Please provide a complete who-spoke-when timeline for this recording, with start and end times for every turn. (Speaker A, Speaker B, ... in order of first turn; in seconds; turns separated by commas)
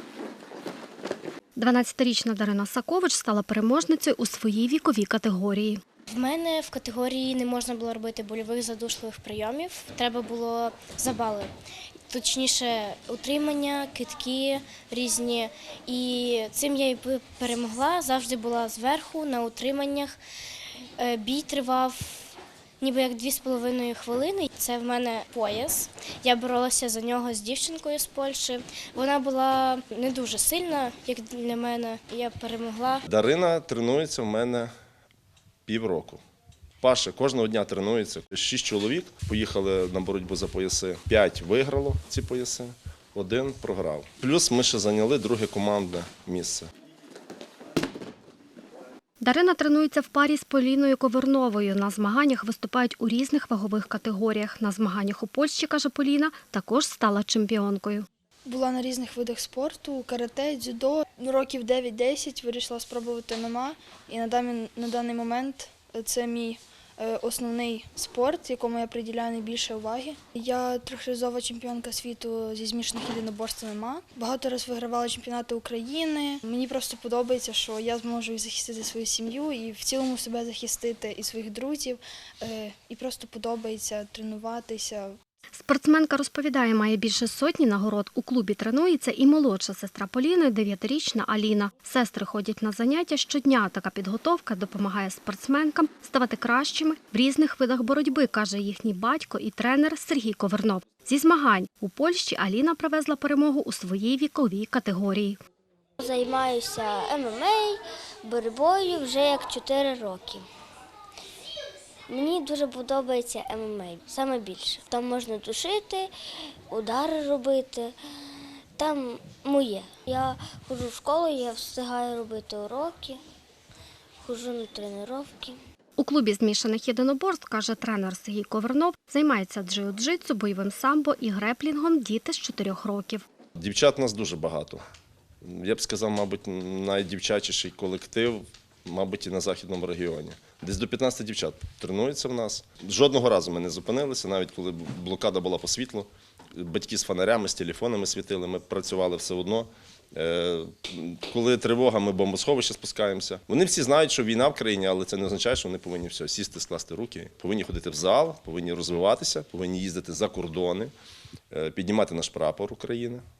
Speaker A: 1.6-5.8, Speaker B: 6.1-11.5, Speaker B: 12.1-20.2, Speaker B: 21.0-33.0, Speaker C: 33.1-34.7, Speaker C: 35.6-36.2, Speaker C: 36.8-46.7, Speaker A: 49.2-58.0, Speaker D: 58.5-85.1, Speaker A: 85.6-105.4, Speaker E: 106.0-110.4, Speaker E: 112.1-116.1, Speaker E: 116.7-117.9, Speaker E: 118.8-123.2, Speaker E: 124.2-125.6, Speaker A: 126.0-133.2, Speaker C: 133.6-134.8, Speaker C: 135.4-160.9, Speaker C: 161.5-163.2